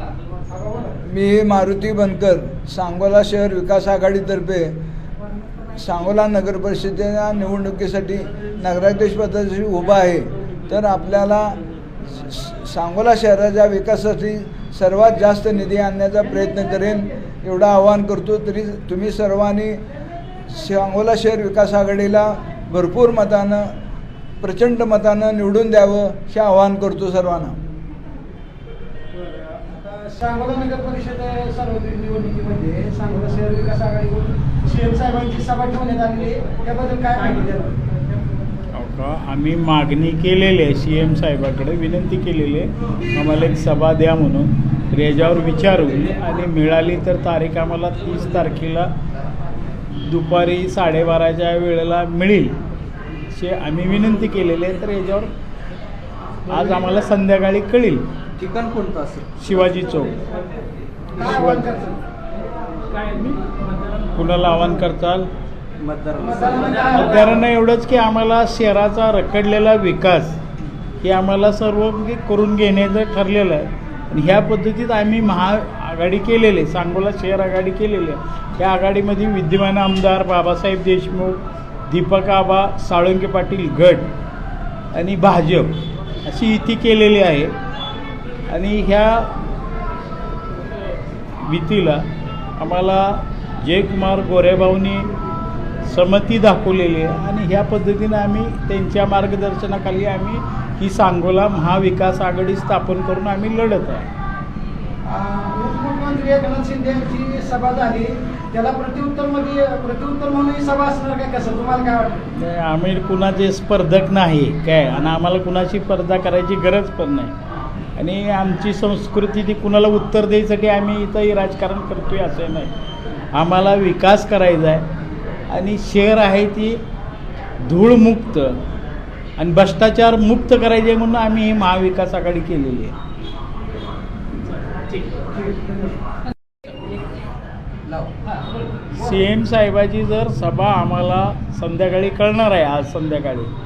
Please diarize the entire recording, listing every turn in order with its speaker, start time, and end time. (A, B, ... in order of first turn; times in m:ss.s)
0:00.6-0:00.9 A
0:00.9-0:04.7 B
0:05.8-0:11.6 B
0:12.1-0:19.8 B
0:20.5-0:23.7 B
0:24.4-0:27.6 B
0:29.2-0:37.8 A
0:38.7-0:48.9 C
0:50.0-0:52.6 C
0:53.3-0:55.3 C
0:56.5-0:58.0 C
0:58.4-0:59.4 D
0:59.4-1:00.2 C
1:01.2-1:02.0 A
1:01.2-1:01.7 C
1:04.1-1:05.3 C
1:05.8-1:06.9 D
1:06.2-1:07.2 A
1:06.9-1:10.4 C
1:11.0-1:24.1 C
1:24.9-1:27.5 C
1:28.5-1:29.4 C
1:31.4-1:32.1 C
1:32.6-1:35.1 C
1:35.8-1:44.1 C
1:45.1-1:52.2 A
1:52.3-1:57.4 C
1:58.0-2:02.7 C
2:03.3-2:04.9 C
2:05.5-2:06.8 C
2:07.6-2:08.6 C
2:09.4-2:13.0 C
2:19.0-2:23.5 C